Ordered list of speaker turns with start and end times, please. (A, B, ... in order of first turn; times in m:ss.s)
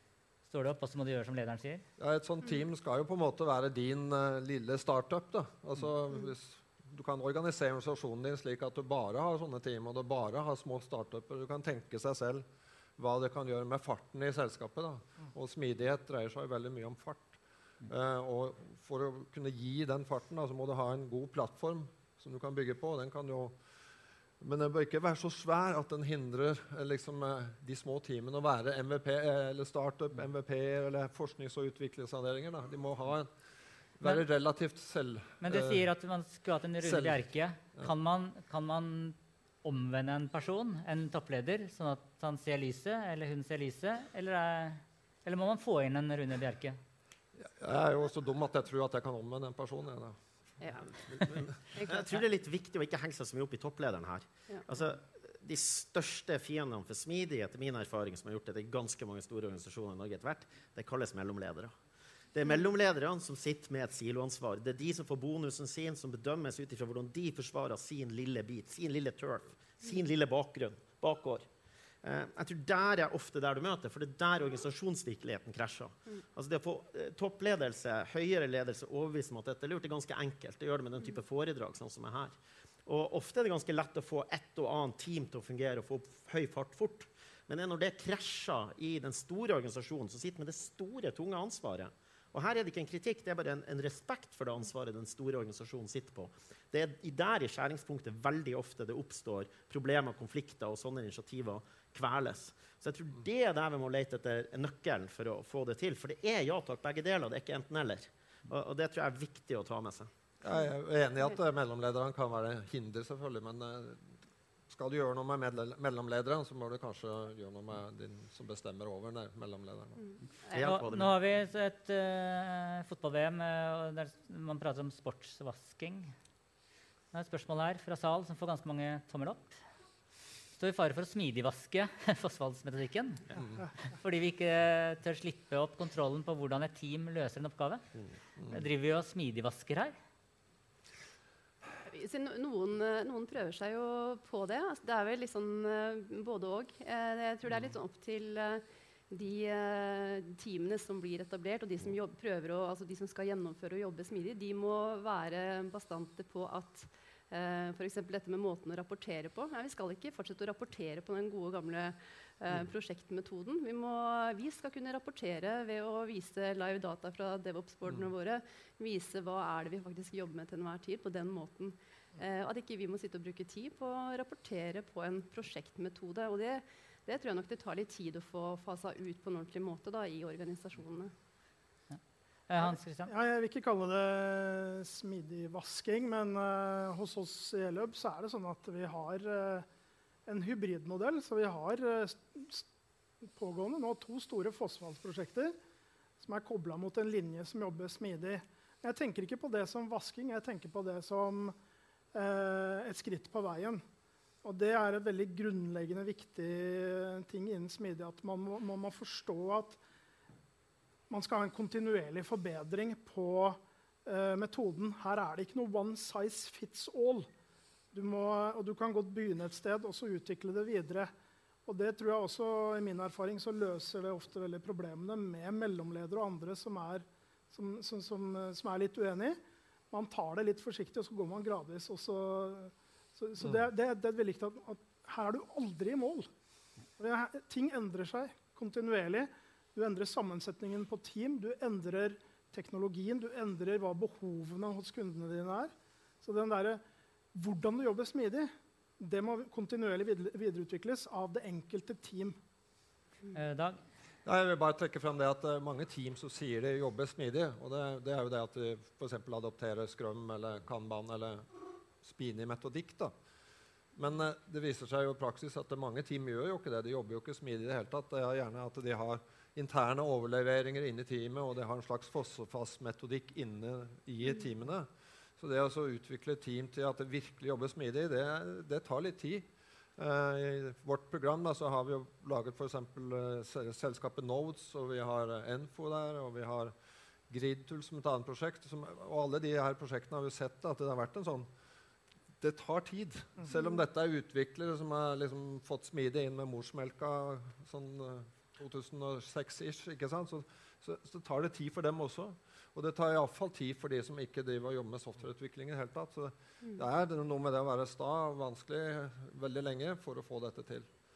0:00.4-0:01.8 A
0:02.0-0:12.4 B
0:13.0-0:23.6 B
0:24.4-0:33.3 B
0:34.0-0:35.9 B
0:35.4-0:46.8 A
0:36.8-0:37.2 B
0:47.4-0:50.2 B
0:50.6-0:50.9 C
0:50.9-1:01.7 D
0:51.7-0:52.2 C
1:02.3-1:11.5 D
1:12.0-1:50.1 D
1:50.4-1:54.1 B
1:54.7-2:00.0 B
2:00.0-2:00.6 C
2:00.5-2:01.1 D
2:00.6-2:06.1 A
2:07.1-2:09.6 A
2:10.6-2:13.2 A
2:13.8-2:17.8 A
2:18.5-2:19.9 A
2:21.8-3:01.1 C
3:01.9-3:03.1 A
3:02.7-3:09.6 E
3:10.2-3:12.6 E
3:13.3-3:15.6 E
3:16.2-3:21.6 E
3:22.1-3:23.8 E
3:24.4-3:29.8 E
3:31.1-3:37.3 E
3:37.9-3:41.1 E
3:41.6-3:49.4 E
3:49.9-3:56.3 E
3:57.0-4:06.8 E
4:07.3-4:12.4 E
4:13.3-4:13.8 A
4:14.2-4:21.5 B
4:22.0-4:23.1 B
4:24.0-4:46.7 B
4:47.3-4:51.5 B
4:52.4-5:10.9 B